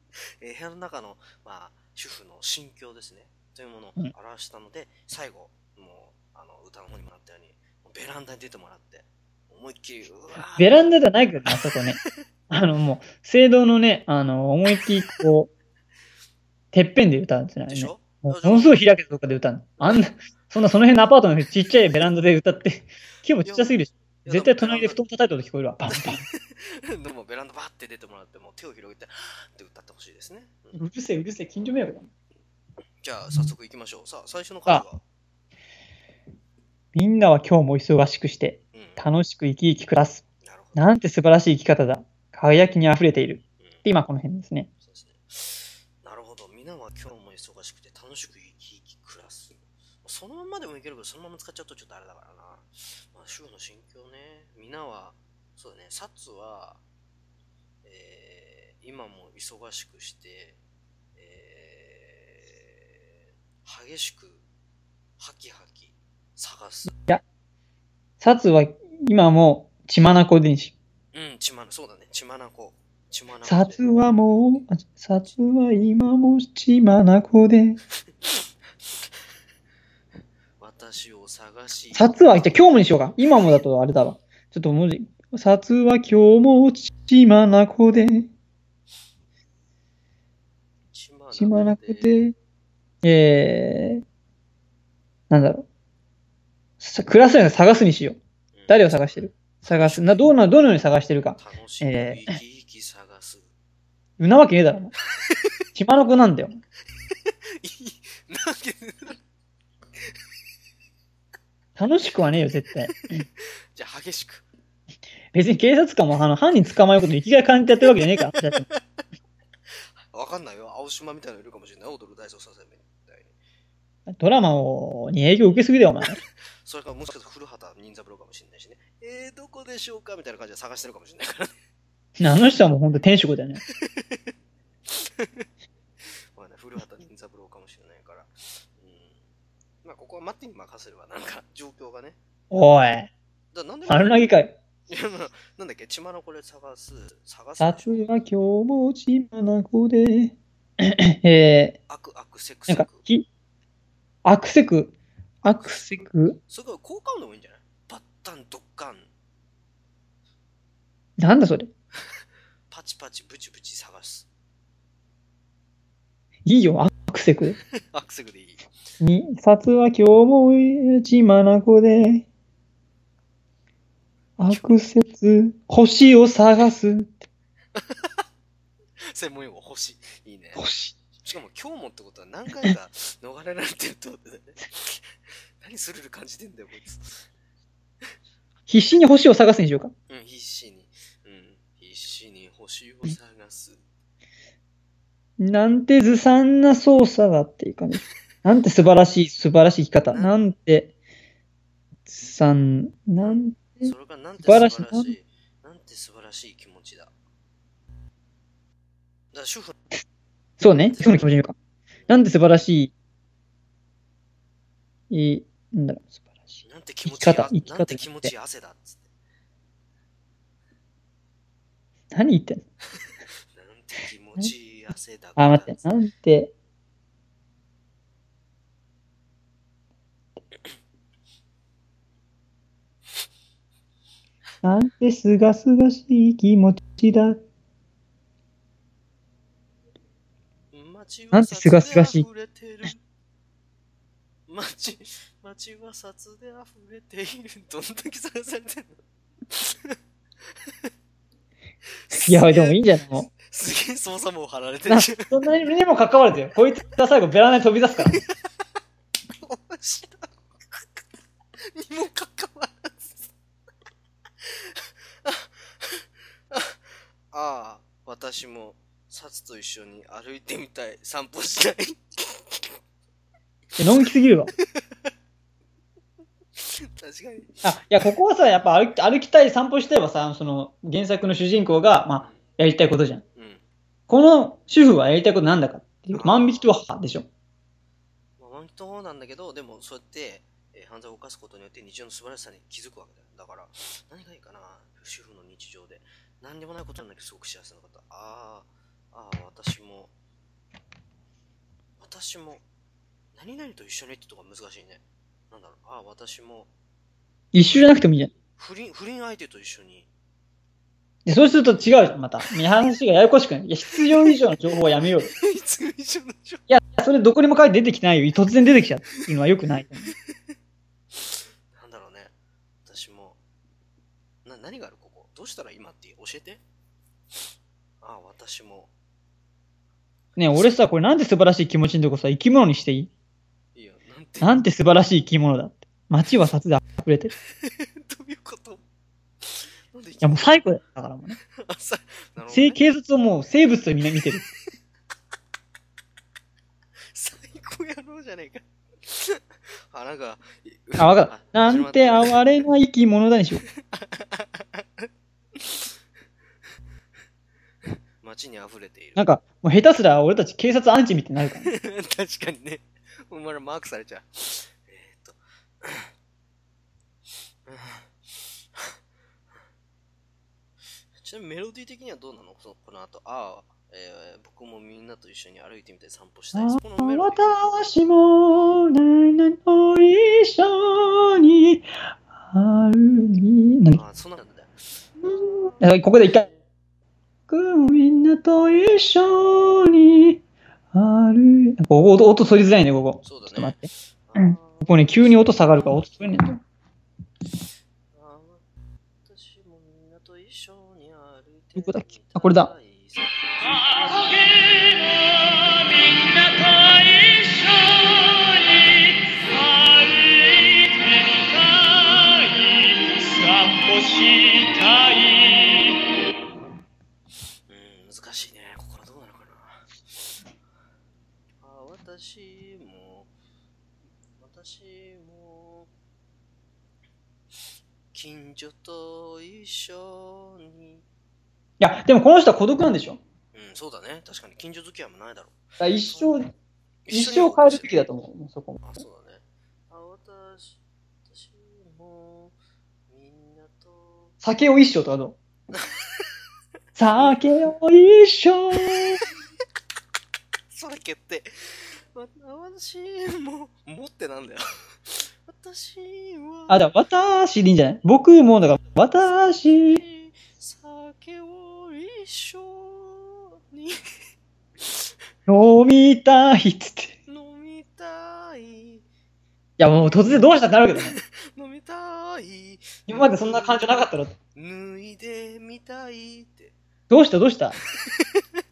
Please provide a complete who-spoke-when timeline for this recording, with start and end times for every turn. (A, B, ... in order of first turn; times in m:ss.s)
0:00.4-0:10.9 A
0:10.6-0:12.0 B
0:11.5-0:12.1 A
0:12.5-0:15.5 B
0:16.7-0:26.2 B
0:17.7-0:18.9 A
0:19.8-0:20.1 A
0:23.4-0:25.0 A
0:26.0-0:30.8 A
0:30.7-0:32.1 B
0:33.0-0:35.0 A
0:36.9-0:40.2 B
0:38.7-0:39.1 A
0:40.4-0:40.9 A
0:40.8-0:44.7 B
0:43.6-0:43.9 A
0:44.8-0:56.8 A
0:57.8-1:00.6 A
1:01.2-1:03.0 A
1:03.6-1:04.4 A
1:05.2-1:06.9 A
1:08.2-1:10.8 B
1:11.1-1:13.9 A
1:13.4-1:17.8 B
1:20.6-1:22.9 A
1:21.9-1:28.3 B
1:30.9-1:32.1 A
1:31.3-1:32.3 B
1:33.0-1:34.0 B
1:35.3-1:35.7 B
1:36.8-1:38.2 B
1:38.5-1:40.3 A
1:38.7-1:42.4 B
1:41.4-1:43.5 A
1:44.2-1:44.9 B
1:45.8-1:46.6 B
1:47.6-1:49.2 A
1:51.8-1:53.2 B
1:53.7-1:54.4 A
1:55.3-1:58.6 B
2:00.0-2:03.3 A
2:04.1-2:06.2 B
2:06.6-2:11.5 A
2:12.2-2:13.6 B
2:13.8-2:14.2 A
2:14.9-2:15.5 A
2:16.4-2:19.2 A
2:19.8-2:22.2 A
2:22.5-2:23.1 B
2:23.5-2:24.3 A
2:23.9-2:24.6 B
2:24.9-2:28.1 A
2:27.6-2:31.8 B
2:31.9-2:33.1 A
2:32.7-2:33.3 B
2:34.2-2:34.9 B
2:35.4-2:36.0 A
2:35.4-2:36.4 B
2:36.5-2:39.1 A
2:41.2-2:41.7 B
2:42.7-2:44.3 A
2:46.5-2:47.6 B
2:47.8-2:48.6 A
2:49.0-2:52.3 B
2:54.4-2:57.3 B
2:57.8-2:58.2 A
2:59.1-3:00.6 A
3:00.6-3:01.0 B
3:01.2-3:07.3 A
3:08.7-3:09.9 B
3:10.1-3:13.8 A
3:15.4-3:20.9 B
3:20.1-3:20.4 A
3:22.1-3:25.1 B
3:23.2-3:27.1 A
3:29.3-3:29.8 A
3:30.6-3:31.6 B
3:30.7-3:31.2 A
3:32.1-3:32.9 B
3:35.1-3:38.3 B
3:36.6-3:39.1 A
3:42.1-3:42.6 B
3:43.5-3:45.9 A
3:45.4-3:46.5 B
3:54.6-3:57.4 B
4:00.7-4:03.0 A
4:01.3-4:02.2 B
4:04.5-4:09.0 A
4:09.5-4:10.0 A
4:12.0-4:12.8 A
4:12.2-4:13.3 B
4:13.4-4:15.3 A
4:14.9-4:18.2 B
4:19.4-4:20.9 A
4:21.7-4:23.3 A
4:24.4-4:26.8 A
4:27.3-4:32.7 A
4:33.8-4:34.5 B
4:36.6-4:37.6 A
4:37.6-4:43.2 B
4:43.4-4:43.6 A
4:44.1-4:47.3 B
4:46.1-4:46.7 A
4:48.4-5:00.1 A
5:02.0-5:02.6 A
5:03.4-5:06.7 A
5:07.5-5:08.3 B
5:08.6-5:10.1 A
5:11.3-5:15.3 B
5:15.3-5:16.7 A
5:16.7-5:20.1 B
5:21.2-5:22.3 A
5:22.9-5:23.4 A
5:24.4-5:26.6 A
5:28.0-5:28.9 A
5:30.4-5:33.1 B
5:33.8-5:34.7 A
5:34.4-5:37.3 B
5:37.6-5:38.8 A
5:39.4-5:40.7 A
5:40.2-5:41.4 B
5:41.6-5:42.8 A
5:42.5-5:44.4 B
5:47.1-5:52.4 A
5:51.0-5:53.6 B
5:53.7-5:55.9 A
5:58.2-5:59.3 A
5:59.2-6:01.7 B
6:01.7-6:06.1 A
6:07.7-6:09.0 A
6:11.2-6:17.7 A
6:16.5-6:21.9 B
6:22.5-6:24.0 B
6:23.9-6:26.6 A
6:25.2-6:26.5 B
6:27.5-6:30.4 B
6:30.9-6:36.6 B
6:33.2-6:35.8 A
6:38.1-6:38.6 A
6:39.2-6:44.1 A
6:41.8-6:42.7 B
6:45.8-6:47.9 C
6:49.4-6:54.3 C
6:54.8-6:55.2 C
6:57.7-7:00.4 A
7:01.6-7:03.3 A
7:04.4-7:05.9 A
7:08.1-7:11.0 A
7:11.8-7:13.2 B
7:13.5-7:16.4 A
7:15.8-7:16.5 B
7:17.1-7:18.0 A
7:17.1-7:19.0 B
7:18.8-7:22.6 A
7:23.1-7:24.4 A
7:24.4-7:25.4 B
7:25.8-7:26.0 A
7:27.0-7:29.2 B
7:27.2-7:27.4 A
7:30.7-7:31.5 A
7:32.1-7:36.9 A
7:36.7-7:40.0 B
7:39.1-7:44.0 A
7:45.5-7:47.2 B
7:47.3-7:49.0 A
7:49.8-7:51.2 B
7:49.9-7:56.7 A
7:53.1-7:54.4 B
7:57.1-7:57.8 B
7:57.8-7:58.4 A